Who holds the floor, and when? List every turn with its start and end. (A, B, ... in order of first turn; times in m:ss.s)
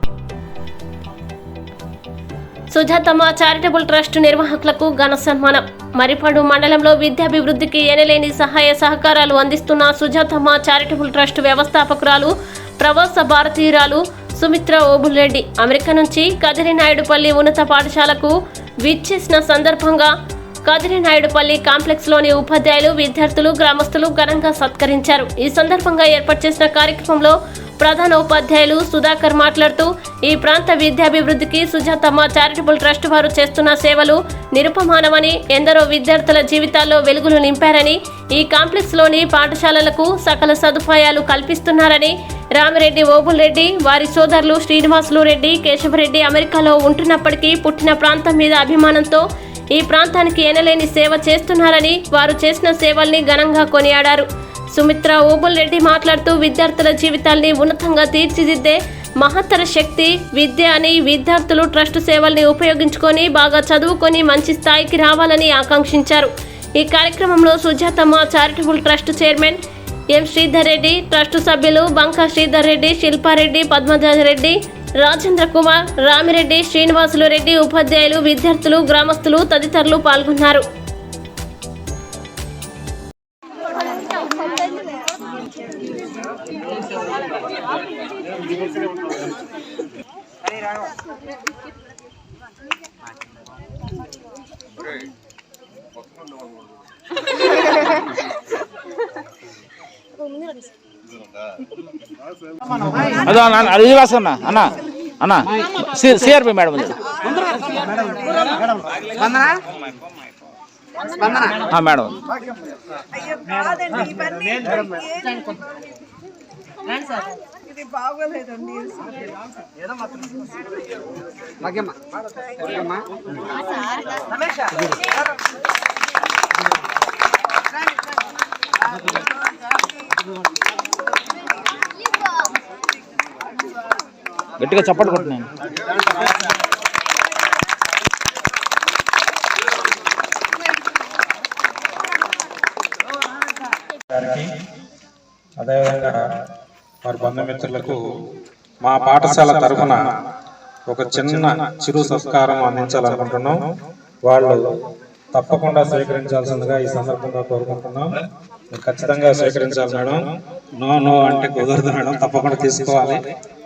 0:02.7-0:20.1 A
0:20.6-1:09.6 A
1:10.1-1:20.6 A
1:42.9-1:47.0 B
1:47.8-1:48.3 C
1:49.2-1:49.6 C
1:51.2-1:51.5 C
1:51.6-1:52.2 B
1:53.5-1:55.3 C
1:57.9-1:59.0 C
2:01.6-2:02.0 C
2:02.6-2:03.0 C
2:14.6-2:15.5 B
2:24.1-2:24.5 D
2:25.6-2:26.3 D
2:27.0-2:28.0 D
2:28.8-2:30.1 D
2:30.9-2:33.7 D
2:34.2-2:34.6 D
2:35.3-2:38.2 D
2:38.7-2:43.3 D